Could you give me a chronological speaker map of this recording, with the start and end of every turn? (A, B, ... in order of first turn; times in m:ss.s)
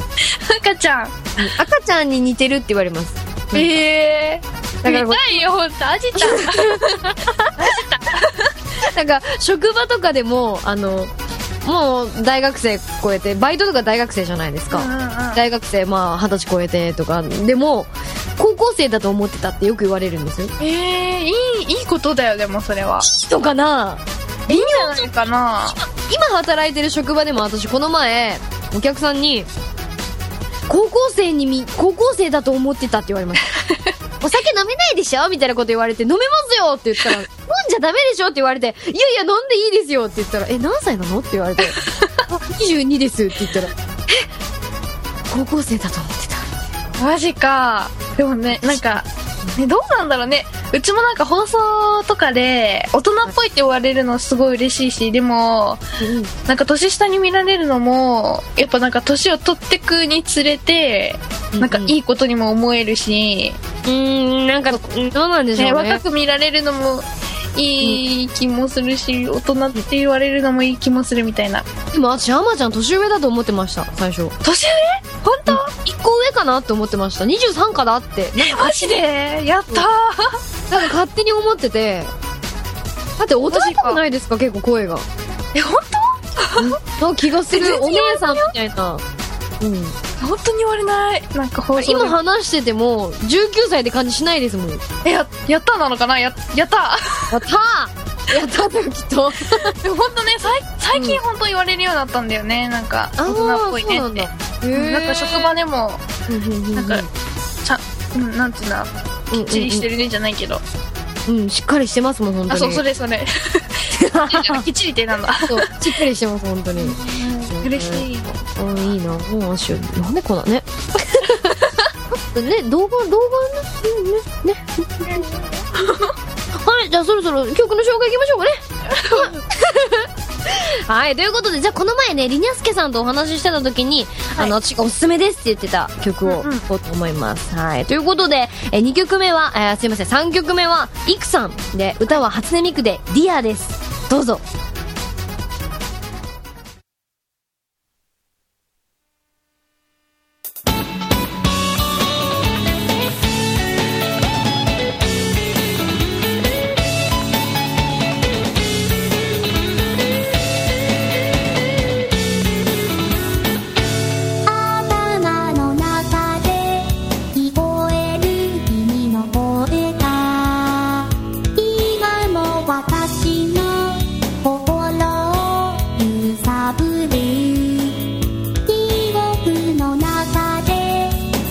0:00.3-0:01.3 A
0:01.4-0:03.8 B
0:03.5-0:08.4 A
0:04.8-0:05.4 B
0:06.2-0:07.7 B
0:08.8-0:11.1 B
0:11.6-0:20.5 B
0:14.7-0:15.4 A
0:20.6-0:23.1 A
0:23.0-0:25.1 B
0:24.5-0:25.8 A
0:25.8-0:29.5 B
0:30.7-0:33.4 B
0:34.2-0:44.2 B
0:45.3-0:46.6 B
0:47.0-0:49.0 A
0:48.6-0:49.5 B
0:49.6-0:55.8 A
0:56.0-0:56.3 B
0:56.5-1:03.6 A
1:01.5-1:01.9 B
1:03.8-1:06.0 B
1:05.6-1:11.6 A
1:11.9-1:14.3 B
1:14.4-1:15.7 A
1:15.5-1:18.8 B
1:18.4-1:20.4 A
1:20.7-1:22.1 B
1:23.2-1:25.0 B
1:23.5-1:24.0 A
1:25.5-1:26.7 A
1:26.6-1:29.0 B
1:27.5-1:28.5 A
1:29.6-1:29.9 B
1:30.2-1:32.2 A
1:31.7-1:34.8 B
1:35.0-1:37.4 A
1:37.3-1:39.7 B
1:39.8-1:46.0 A
1:40.9-1:41.2 B
1:43.2-1:45.6 B
1:46.3-1:47.1 B
1:46.7-1:47.0 A
1:47.6-1:50.6 A
1:49.3-1:49.9 B
1:51.2-1:52.8 B
1:52.5-1:55.7 A
1:53.9-1:54.6 B
1:55.4-1:57.0 B
1:56.8-1:58.4 A
1:57.5-2:01.5 B
2:01.5-2:01.8 A
2:02.3-2:05.2 B
2:05.0-2:06.1 A
2:06.5-2:24.4 B
2:08.9-2:09.4 A
2:16.2-2:16.6 A
2:44.4-2:58.0 C
2:58.6-3:01.2 C